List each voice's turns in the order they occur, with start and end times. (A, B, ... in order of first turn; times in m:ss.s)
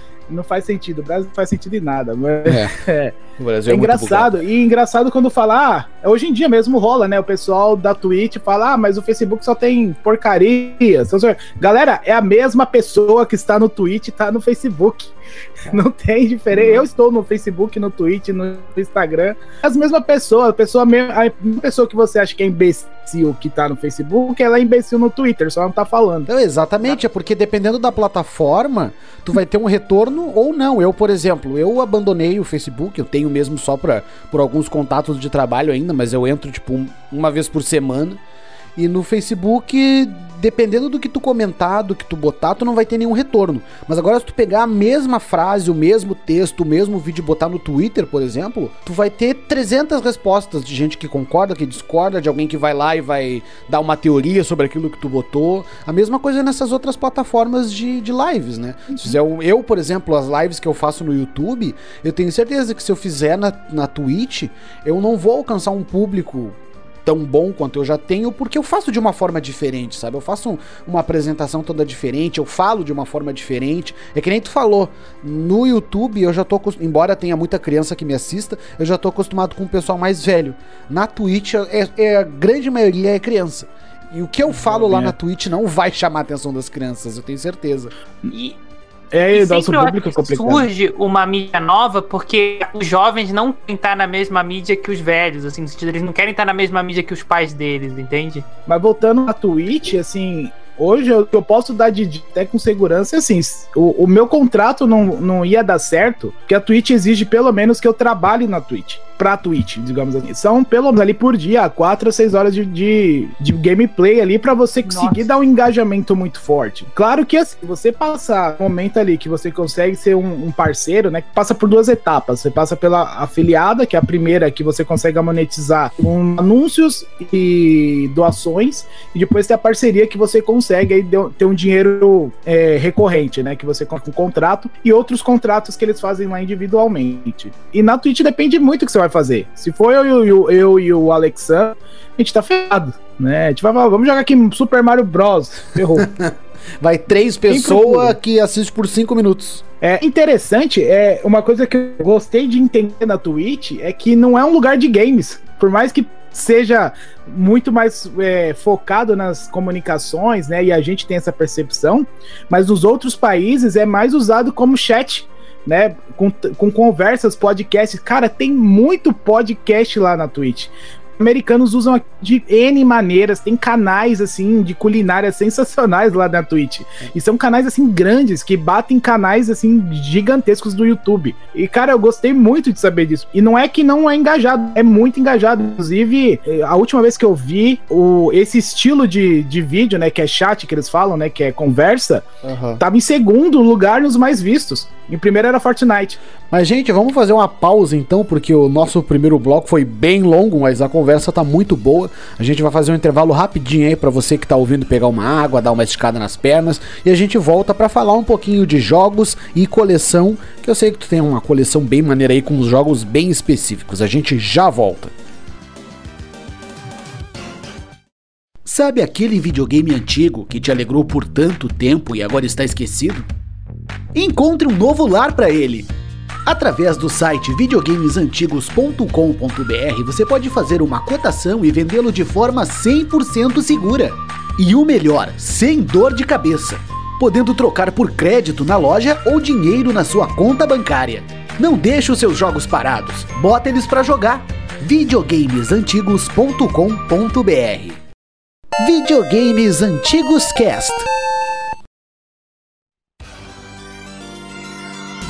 0:00.3-0:03.2 A
0:02.4-0:02.8 B
0:03.4-0:04.4 B
0:03.7-0:15.1 A
0:15.7-0:26.3 A
0:26.3-0:38.2 B
0:38.8-1:27.9 B
1:24.5-1:25.2 A
1:28.3-1:28.6 C
1:29.1-1:30.7 A
1:29.3-1:38.5 C
1:38.7-2:26.1 A
1:54.8-1:55.3 C
2:25.9-2:29.6 B
2:27.5-2:28.2 A
2:29.8-3:12.3 A
3:12.4-3:12.8 B
3:12.8-3:16.2 A
3:16.5-3:35.1 B
3:38.6-3:43.3 B
3:44.2-3:45.9 B
3:46.5-4:08.0 B
4:08.8-4:11.1 B